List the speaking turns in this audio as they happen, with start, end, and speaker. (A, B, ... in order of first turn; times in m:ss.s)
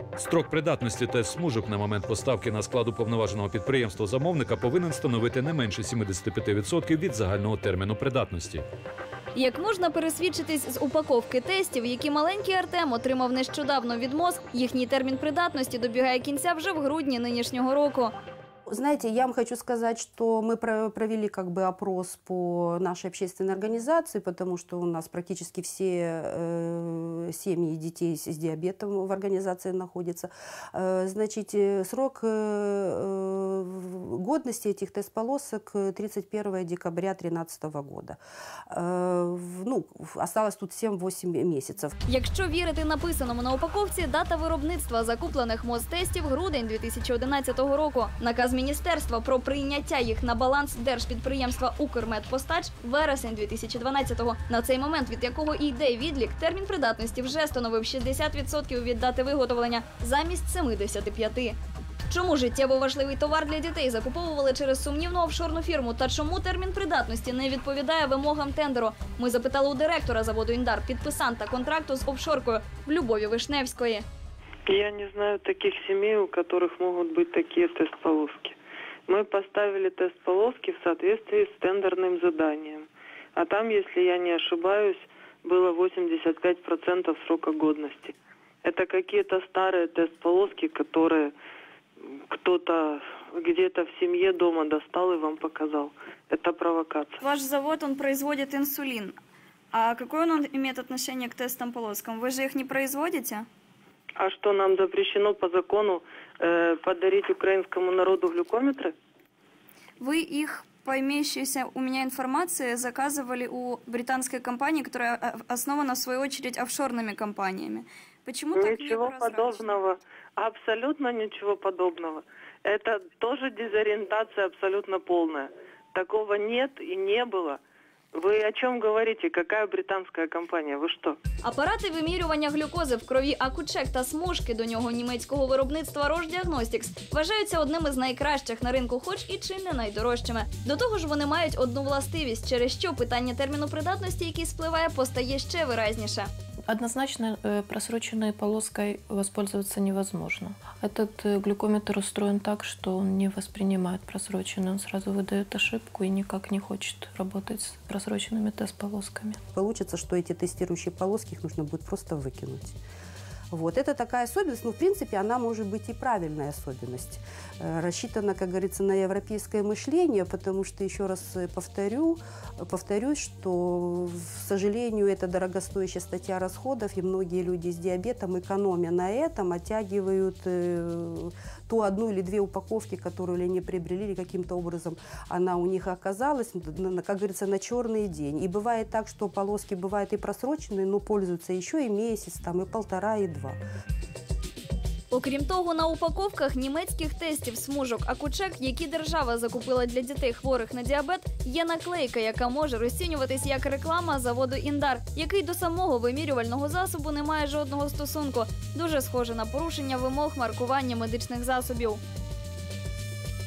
0:00.2-0:08.6 A
0:09.3-0:18.1 B
0:18.7-0:41.9 C
0:42.1-1:14.0 B
1:14.7-1:18.6 D
1:19.1-1:31.3 D
1:32.3-1:37.1 D
1:37.2-1:39.1 B
1:39.7-1:43.4 B
1:44.2-1:48.9 D
1:50.0-1:59.8 B
1:58.5-2:07.6 D
2:08.1-2:11.2 D
2:11.4-2:26.3 B
2:26.7-2:39.4 E
2:39.5-2:42.8 C
2:43.5-3:13.6 C
3:15.1-3:32.0 B